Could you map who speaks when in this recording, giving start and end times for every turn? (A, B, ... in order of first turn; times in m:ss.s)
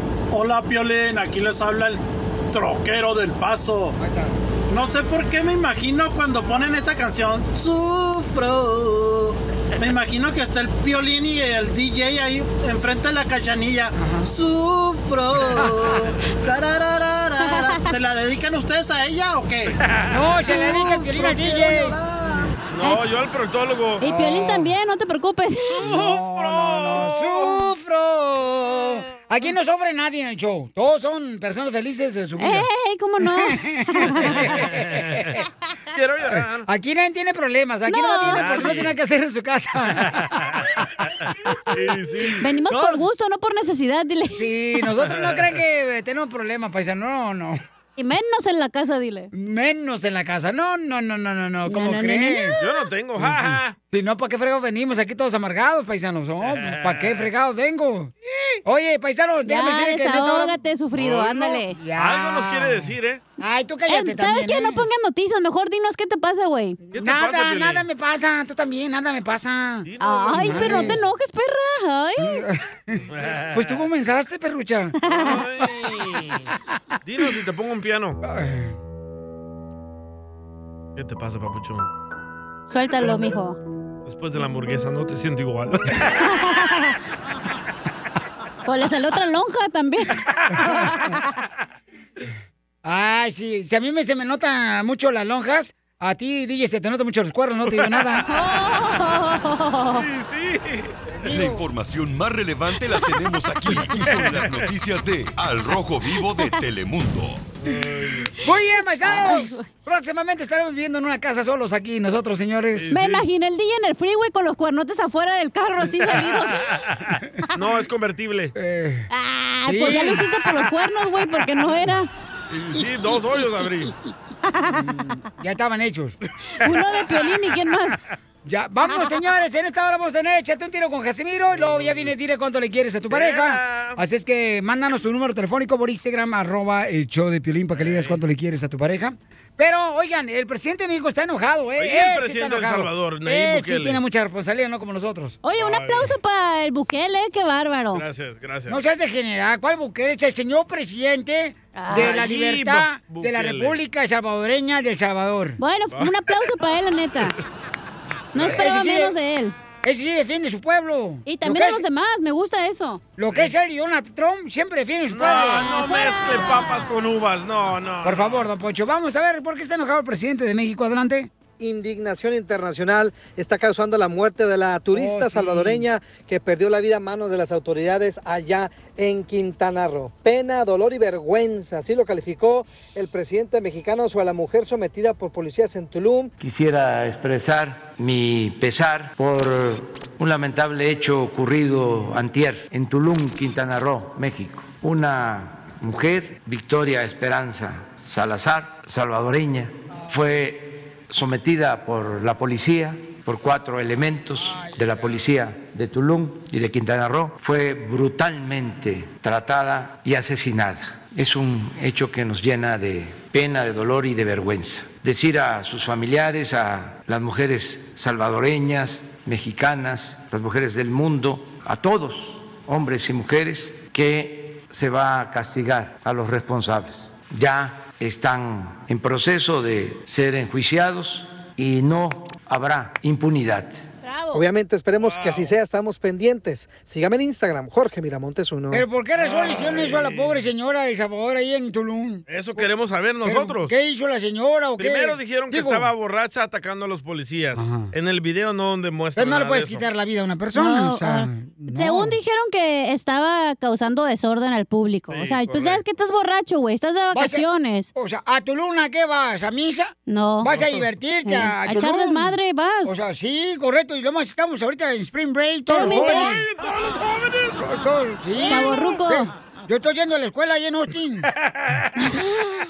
0:00.3-0:04.0 A
0:04.0-0:04.4 B
0:04.7-0:19.8 A
0:14.0-0:14.3 B
0:17.4-0:18.0 C
0:19.9-0:20.8 D
0:20.1-0:22.5 B
0:20.7-0:21.2 C
0:21.2-0:22.6 A
0:22.7-0:24.0 D
0:24.0-0:25.9 C
0:24.0-0:24.7 B
0:25.8-0:27.7 D
0:25.8-0:32.6 B
0:32.4-0:34.6 C
0:33.2-0:35.4 B
0:34.4-0:36.7 D
0:36.4-0:40.4 B
0:37.9-0:38.9 C
0:38.3-0:39.0 D
0:40.0-0:40.7 D
0:41.7-0:42.4 D
0:42.4-0:44.5 C
0:44.3-0:47.6 B
0:45.1-0:45.5 D
0:48.0-0:49.3 C
0:49.3-0:52.6 B
0:51.7-0:52.7 C
0:52.6-0:53.8 D
0:53.2-0:58.1 B
0:56.4-0:57.3 D
0:58.6-1:00.5 B
0:59.5-1:01.8 C
1:01.0-1:01.4 D
1:01.3-1:04.8 B
1:02.0-1:03.2 D
1:03.9-1:06.8 C
1:06.8-1:11.0 B
1:06.9-1:07.8 D
1:09.9-1:11.0 D
1:10.0-1:12.4 C
1:12.2-1:15.0 B
1:13.1-1:13.8 D
1:15.0-1:15.4 C
1:15.0-1:16.5 D
1:17.0-1:18.2 D
1:18.2-1:18.8 B
1:21.0-1:21.9 D
1:22.7-1:23.6 C
1:24.1-1:26.3 D
1:26.2-1:26.9 C
1:28.7-1:31.3 C
1:32.8-1:38.3 B
1:37.7-1:38.2 D
1:38.3-1:40.0 C
1:39.9-1:41.0 D
1:41.2-1:41.6 B
1:41.3-1:47.4 E
1:44.0-1:44.6 D
1:47.6-1:48.3 D
1:48.4-1:52.9 B
1:49.0-1:49.7 C
1:52.8-1:53.3 D
1:52.9-1:56.8 C
1:56.2-1:58.5 D
1:58.6-1:59.1 B
1:59.1-2:02.1 C
1:59.7-2:00.2 B
2:02.5-2:03.9 D
2:04.5-2:04.8 C
2:04.7-2:06.2 B
2:06.6-2:08.0 C
2:08.4-2:25.4 B
2:11.6-2:12.1 D
2:13.1-2:14.0 D
2:17.8-2:18.2 D
2:21.8-2:24.0 D
2:25.4-2:28.0 C
2:25.6-2:26.1 D
2:27.9-2:28.8 D
2:28.7-2:35.6 B
2:31.8-2:32.2 C
2:31.9-2:33.8 D
2:35.6-2:37.4 C
2:35.9-2:36.4 D
2:38.3-2:39.6 C
2:38.4-2:38.6 D
2:38.4-2:39.1 B
2:39.8-2:41.8 B
2:41.3-2:43.0 C
2:43.2-2:45.7 B
2:45.1-2:48.5 D
2:45.5-2:46.8 C
2:48.0-2:51.3 B
2:51.6-3:06.3 F
2:54.9-2:55.9 B
3:06.4-3:53.8 G
3:24.4-3:25.2 B
3:54.0-3:54.5 C
3:54.3-3:58.8 F
3:55.0-3:55.6 D
3:58.7-4:02.7 B
3:59.2-4:00.4 D
4:02.3-4:03.7 D
4:03.2-4:05.9 B
4:04.8-4:09.8 D
4:07.6-4:07.9 B
4:09.2-4:12.1 B
4:10.6-4:17.9 C
4:15.1-4:15.8 D
4:17.1-4:26.5 B
4:20.1-4:20.5 C
4:20.5-4:20.9 D
4:21.3-4:23.0 C
4:25.7-4:26.4 C
4:25.8-4:27.9 D
4:27.6-4:31.3 B
4:28.4-4:28.8 D
4:28.4-4:29.3 C
4:31.3-4:32.0 D